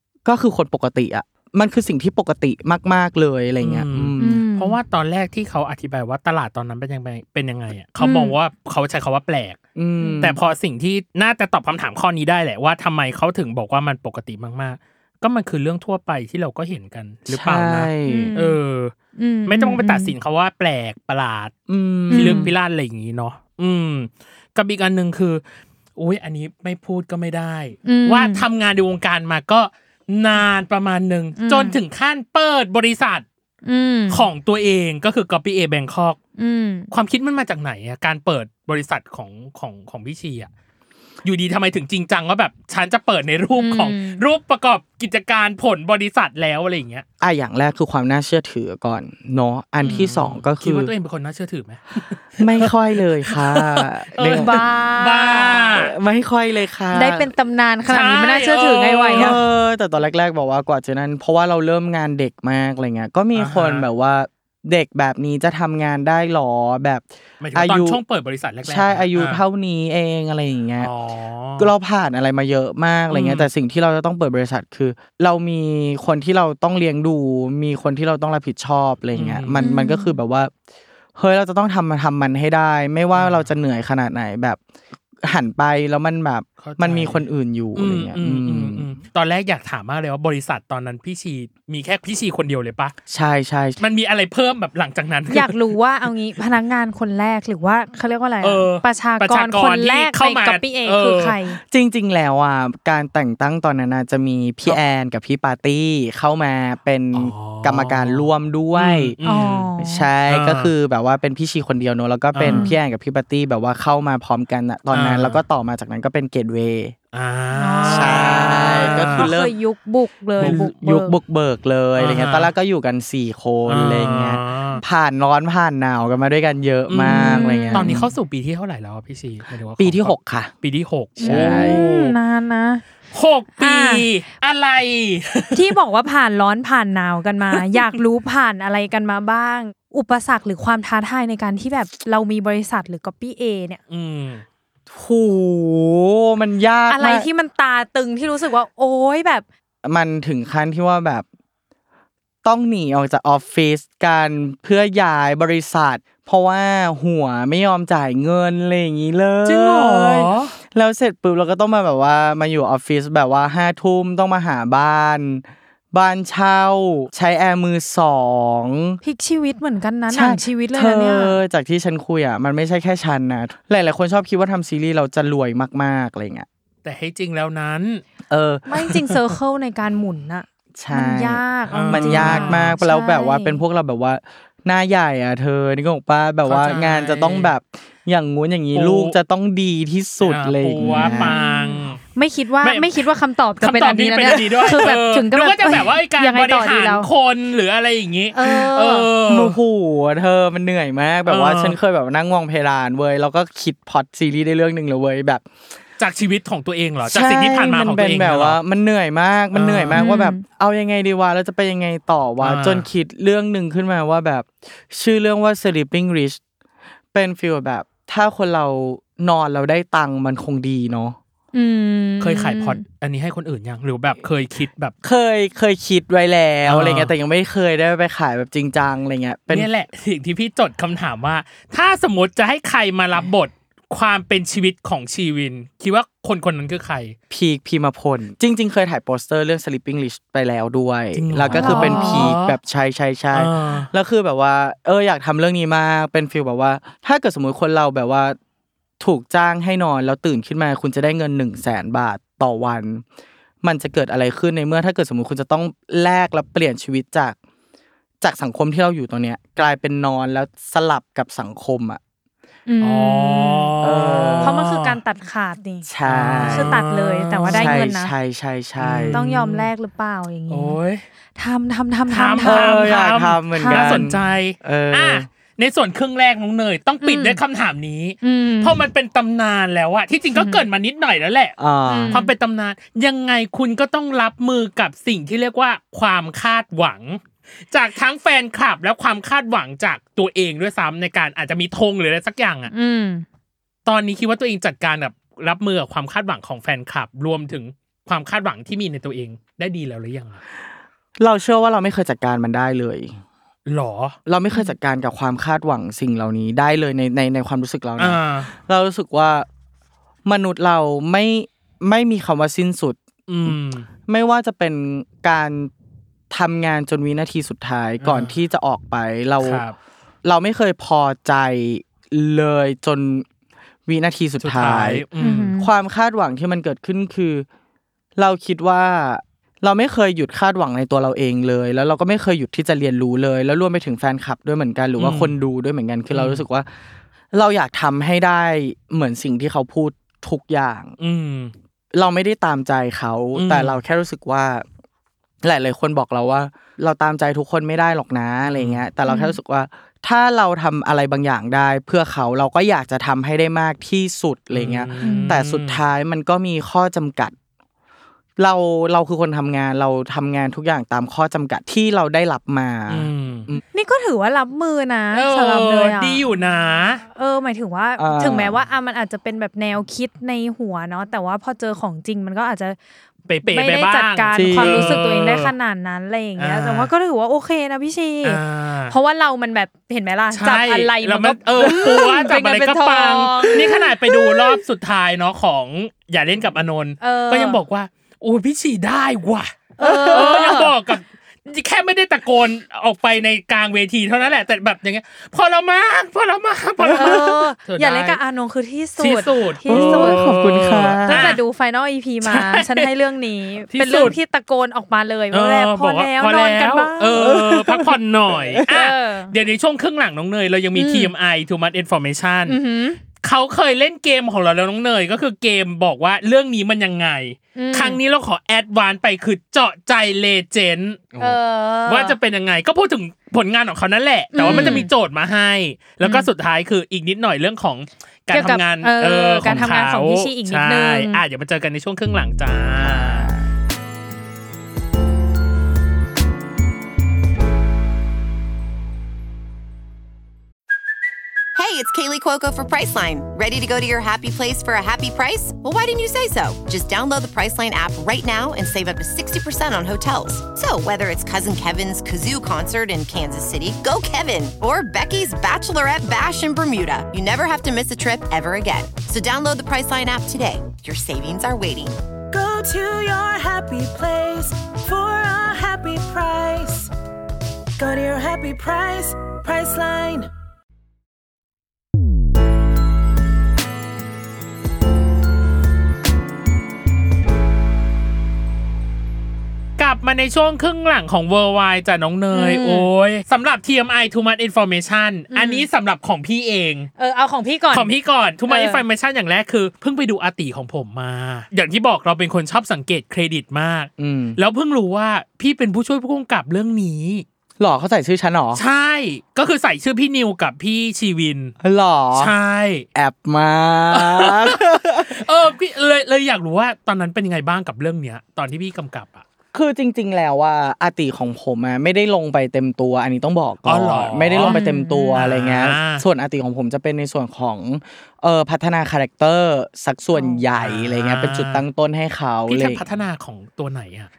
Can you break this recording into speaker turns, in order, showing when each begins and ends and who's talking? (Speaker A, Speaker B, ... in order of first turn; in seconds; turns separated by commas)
Speaker A: 0.2-4.4, Speaker B: 3.6-9.6, Speaker C: 4.2-4.8, Speaker C: 8.0-8.3, Speaker A: 9.8-10.4, Speaker B: 10.2-18.9, Speaker A: 17.3-18.3, Speaker C: 18.1-18.6, Speaker C: 19.2-20.1, Speaker B: 19.5-21.5, Speaker A: 21.7-22.5, Speaker B: 22.1-25.4, Speaker C: 22.1-22.5, Speaker B: 26.0-33.2, Speaker C: 27.9-28.4, Speaker C: 31.4-31.8, Speaker C: 33.6-34.3, Speaker B: 34.1-36.2, Speaker C: 36.4-36.9, Speaker B: 36.9-40.5, Speaker B: 41.2-47.0, Speaker C: 43.6-44.2, Speaker A: 47.2-50.9, Speaker B: 49.8-55.9, Speaker A: 52.4-54.6, Speaker C: 54.2-55.7, Speaker A: 55.7-57.3, Speaker C: 56.9-59.4, Speaker B: 57.9-59.4, Speaker A: 59.1-68.0, Speaker B: 63.4-63.9, Speaker B: 67.4-69.4, Speaker A: 68.7-70.9, Speaker B: 70.8-71.7, Speaker A: 71.6-80.5, Speaker B: 73.1-73.5, Speaker B: 79.2-79.6, Speaker C: 79.6-80.2, Speaker A: 81.2-84.6, Speaker B: 83.1-83.5, Speaker A: 85.2-88.9, Speaker B: 86.6-87.2, Speaker B: 87.8-93.0, Speaker A: 93.1-93.8, Speaker B: 93.8-95.6, Speaker C: 95.3-101.6, Speaker B: 98.4-101.4, Speaker A: 101.7-109.2, Speaker B: 107.1-109.7, Speaker C: 109.2-110.1, Speaker A: 109.8-117.0, Speaker B: 110.3-110.7, Speaker B: 112.3-112.7, Speaker C: 112.5-112.8, Speaker B: 114.9-115.4, Speaker B: 117.1-119.3, Speaker C: 117.6-121.2, Speaker A: 117.9-119.5, Speaker B: 120.4-120.7, Speaker A: 120.4-128.1, Speaker B: 122.0-122.5, Speaker B: 123.7-124.8, Speaker B: 126.9-132.2, Speaker C: 127.1-128.0, Speaker A: 129.8-130.5, Speaker A: 131.2-131.8, Speaker C: 131.2-132.8, Speaker B: 133.1-135.7, Speaker C: 133.6-134.1, Speaker C: 135.5-143.8, Speaker B: 137.5-137.9, Speaker B: 143.9-144.4, Speaker A: 144.9-147.3, Speaker C: 146.9-149.4, Speaker A: 149.8-151.2, Speaker A: 152.4-169.0, Speaker B: 159.4-160.6, Speaker C: 169.0-171.4, Speaker A: 170.1-176.5, Speaker B: 176.8-178.0, Speaker A: 178.3-179.0, Speaker C: 178.7-183.6, Speaker A: 180.8-191.4, Speaker B: 181.7-182.8, Speaker B: 186.5-187.5, Speaker B: 188.7-189.2, Speaker B: 190.2-192.0, Speaker C: 190.8-197.1, Speaker B: 192.6-193.1, Speaker B: 193.6-199.6, Speaker C: 198.3-199.1, Speaker A: 199.3-205.4, Speaker B: 201.3-201.8, Speaker B: 206.0-208.6, Speaker A: 207.1-216.4, Speaker B: 209.5-210.1, Speaker C: 209.9-210.4, Speaker B: 212.4-212.9, Speaker A: 217.1-221.2, Speaker C: 221.5-222.8, Speaker B: 222.2-224.9, Speaker A: 225.0-229.7, Speaker B: 226.7-227.1, Speaker B: 229.5-237.2, Speaker A: 237.3-248.4, Speaker B: 241.2-242.6, Speaker C: 241.5-242.3, Speaker B: 243.3-243.9, Speaker A: 249.0-253.0, Speaker A: 253.6-257.4, Speaker A: 258.2-262.0, Speaker C: 262.7-263.7, Speaker B: 262.8-265.0, Speaker A: 263.8-264.6, Speaker C: 264.4-268.1, Speaker A: 265.9-266.8, Speaker B: 266.1-267.9, Speaker A: 267.5-269.2, Speaker B: 268.8-269.7, Speaker C: 269.1-270.8, Speaker B: 270.5-271.1, Speaker C: 271.4-274.0, Speaker B: 272.1-281.6, Speaker A: 272.4-275.3, Speaker C: 277.0-277.4, Speaker C: 278.2-278.8, Speaker C: 280.3-280.6, Speaker A: 281.6-282.2, Speaker C: 281.9-282.3, Speaker B: 282.1-292.7, Speaker C: 292.7-293.2, Speaker B: 293.9-300.4, Speaker A: 301.2-303.2, Speaker B: 303.7-304.2, Speaker A: 304.3-309.5, Speaker B: 308.0-308.5, Speaker A: 310.2-313.6, Speaker B: 313.3-313.9, Speaker A: 314.1-315.7, Speaker A: 316.3-319.6, Speaker B: 318.0-318.3, Speaker B: 319.4-319.8, Speaker A: 320.2-323.3, Speaker A: 323.9-327.5, Speaker B: 324.4-325.5, Speaker C: 325.2-325.7, Speaker A: 328.2-336.7, Speaker B: 335.0-335.3, Speaker B: 336.1-336.4, Speaker A: 337.3-340.9, Speaker B: 341.0-341.5, Speaker A: 341.9-344.6, Speaker B: 343.4-343.8, Speaker A: 345.4-357.4, Speaker B: 348.5-348.8, Speaker C: 349.1-349.4, Speaker B: 354.5-355.8, Speaker C: 355.0-355.4, Speaker A: 358.4-363.6, Speaker B: 362.9-363.5, Speaker C: 363.7-366.2, Speaker B: 365.1-367.0, Speaker C: 367.1-372.8, Speaker A: 368.0-368.6, Speaker B: 373.3-375.5, Speaker C: 373.5-384.6, Speaker A: 374.3-375.0, Speaker B: 376.4-376.9, Speaker B: 378.2-378.9, Speaker B: 380.3-398.2, Speaker A: 381.6-382.1, Speaker C: 387.0-387.6, Speaker C: 389.8-390.7, Speaker A: 389.8-390.6, Speaker A: 396.8-397.2, Speaker C: 396.9-400.2, Speaker B: 399.0-401.4, Speaker A: 399.7-401.4, Speaker C: 401.1-407.3, Speaker B: 402.2-402.9, Speaker B: 403.7-404.2, Speaker B: 405.3-412.6, Speaker A: 407.1-408.6, Speaker C: 408.7-409.3, Speaker C: 410.8-411.1, Speaker C: 412.5-413.0, Speaker B: 413.2-421.2, Speaker C: 417.6-418.0, Speaker C: 421.2-422.2, Speaker B: 421.9-433.3, Speaker C: 424.3-424.9, Speaker A: 424.4-424.9, Speaker C: 426.0-426.3, Speaker C: 428.3-431.2, Speaker A: 432.8-433.5, Speaker D: 441.6-462.0, Speaker E: 462.3-466.9, Speaker E: 467.8-470.3, Speaker B: 479.8-486.9, Speaker C: 482.3-482.9, Speaker C: 485.3-485.7, Speaker C: 487.0-487.9, Speaker B: 487.7-497.2, Speaker C: 488.5-488.8, Speaker A: 494.0-494.4, Speaker A: 497.6-498.6, Speaker B: 498.6-501.6, Speaker A: 501.6-502.3, Speaker B: 502.2-502.9, Speaker A: 502.9-505.2, Speaker B: 503.9-509.2, Speaker A: 509.5-522.8, Speaker B: 513.6-514.6, Speaker C: 514.4-515.2, Speaker B: 515.1-516.0, Speaker C: 520.1-520.4, Speaker B: 520.5-521.6, Speaker B: 522.5-524.1